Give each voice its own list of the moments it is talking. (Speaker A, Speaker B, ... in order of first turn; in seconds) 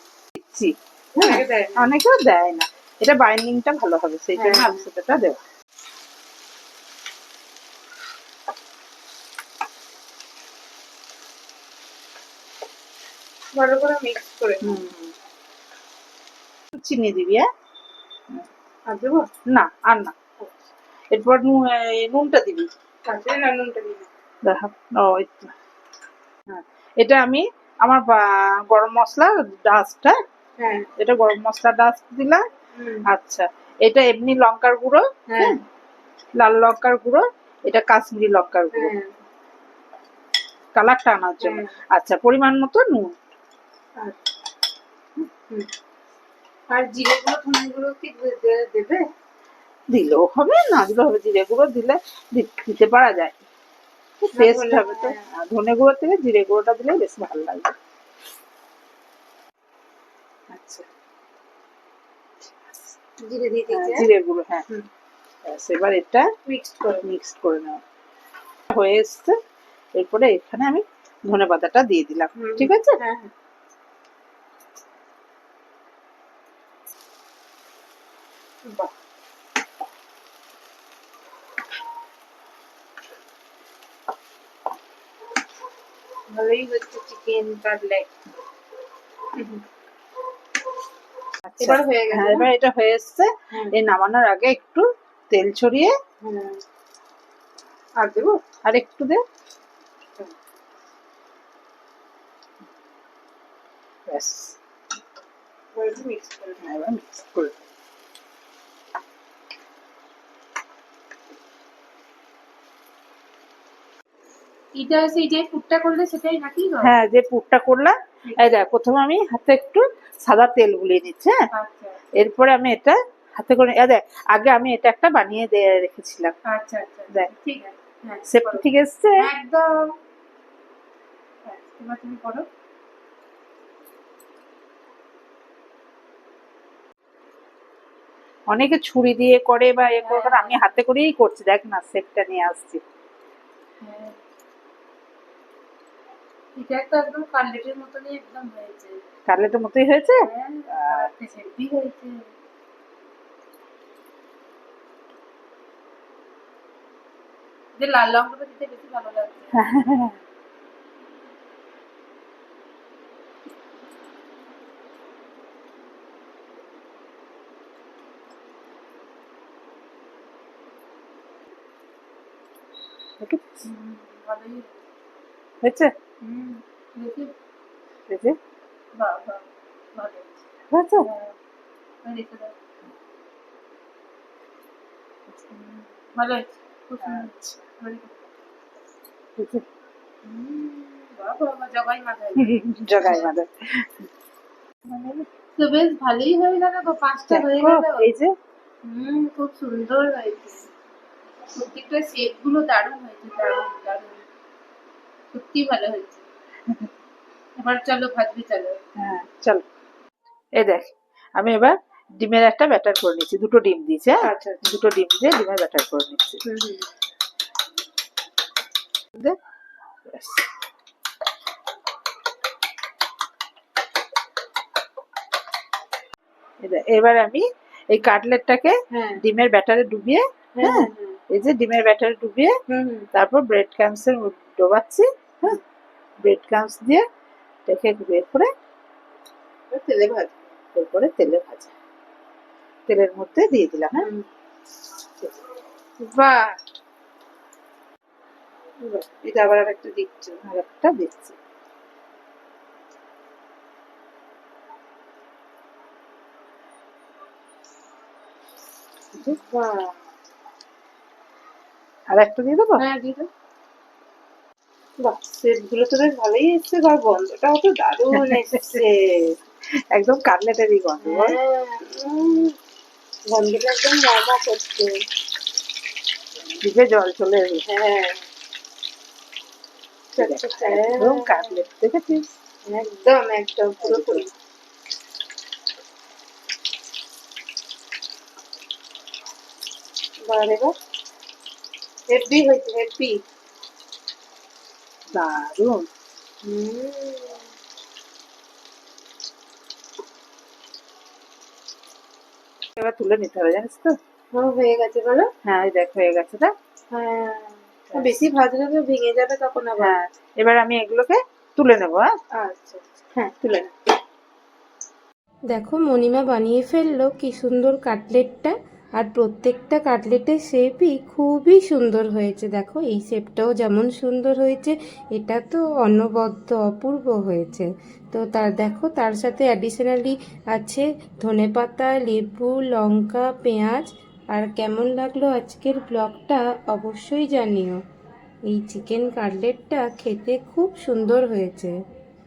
Speaker A: 0.3-5.4, 14.6-15.1, 16.8-17.5, 19.5-20.1, 21.1-22.7, 24.4-25.5, 26.5-30.2, 31.0-32.4, 33.0-35.6, 36.4-38.9, 40.8-43.2, 49.9-53.4, 54.2-57.7, 60.5-60.9, 63.7-64.6, 65.5-66.3, 67.0-67.8, 68.7-69.3, 70.0-73.0, 91.5-95.9, 98.6-99.2, 104.1-104.6, 106.6-107.6, 116.8-121.3, 122.2-126.3, 128.3-129.3, 138.5-142.8, 149.3-151.1, 159.5-160.2, 173.2-173.6, 175.6-175.9, 178.1-178.4, 180.7-181.1, 187.0-187.4, 189.4-189.6, 192.4-194.0, 194.9-195.2, 197.3-198.3, 209.0-209.6, 210.6-216.4, 220.1-220.4, 226.6-232.5, 233.1-235.6, 236.2-237.0, 237.7-238.5, 240.7-241.7, 242.9-244.1, 246.0-246.3, 250.4-251.4, 262.1-262.8, 268.1-268.8, 269.9-271.4, 276.6-277.6, 280.2-282.3, 283.8-284.2, 295.1-295.8, 302.8-303.9, 305.4-306.5, 309.8-312.1
Speaker B: 1.2-1.8, 4.3-4.8, 13.5-14.8, 18.9-19.3, 23.1-24.1, 30.6-30.9, 32.8-33.0, 35.3-35.6, 38.7-39.1, 41.4-41.7, 46.7-49.1, 54.3-55.2, 63.2-64.1, 66.5-67.1, 72.4-73.3, 78.7-78.9, 86.3-88.1, 89.3-89.6, 91.6-92.5, 96.2-96.6, 98.0-98.4, 105.7-106.6, 114.7-116.9, 118.2-118.6, 121.5-122.0, 126.4-128.7, 129.2-129.9, 131.4-132.4, 140.0-140.6, 143.8-144.2, 146.6-149.0, 150.1-152.2, 157.8-159.6, 173.7-174.7, 176.2-177.3, 178.9-179.4, 179.9-180.3, 181.0-181.3, 182.0-182.5, 185.5-188.3, 190.2-193.3, 195.6-198.1, 198.8-200.7, 201.5-204.2, 205.3-206.2, 207.6-208.8, 214.2-214.6, 216.4-216.9, 228.9-229.2, 230.6-231.2, 232.7-233.1, 239.7-240.5, 244.0-244.3, 248.8-250.3, 259.3-260.0, 262.8-263.3, 265.0-269.2, 271.0-272.6, 273.3-275.0, 277.6-278.2, 280.1-281.6, 282.6-284.3, 290.2-290.7, 292.1-293.2, 296.4-297.5, 304.3-305.3, 306.9-310.0, 312.3-313.7
Speaker C: 315.5-337.8, 338.5-341.8